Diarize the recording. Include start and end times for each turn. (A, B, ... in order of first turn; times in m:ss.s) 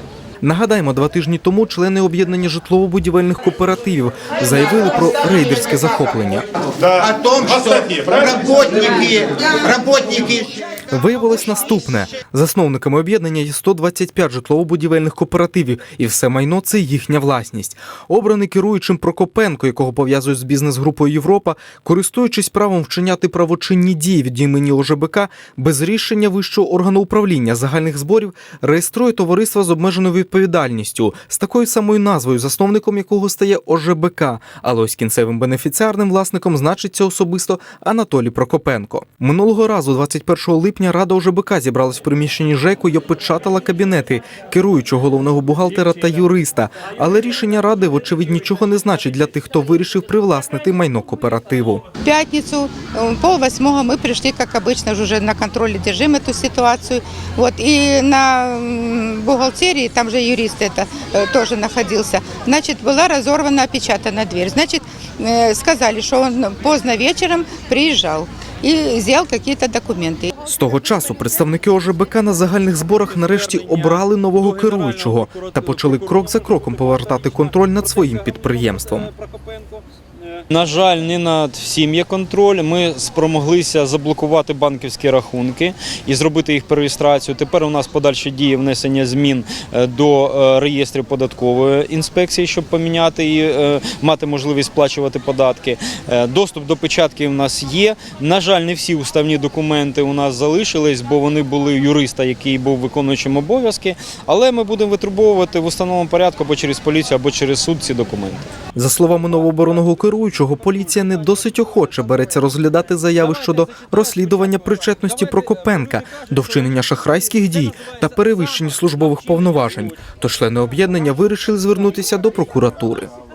0:00.4-0:06.5 A
0:06.9-0:10.6 B
0:10.9-0:51.8 A
0:52.0-1:10.3 C
1:10.4-1:19.1 A
1:20.5-1:48.5 D
1:48.8-2:03.1 A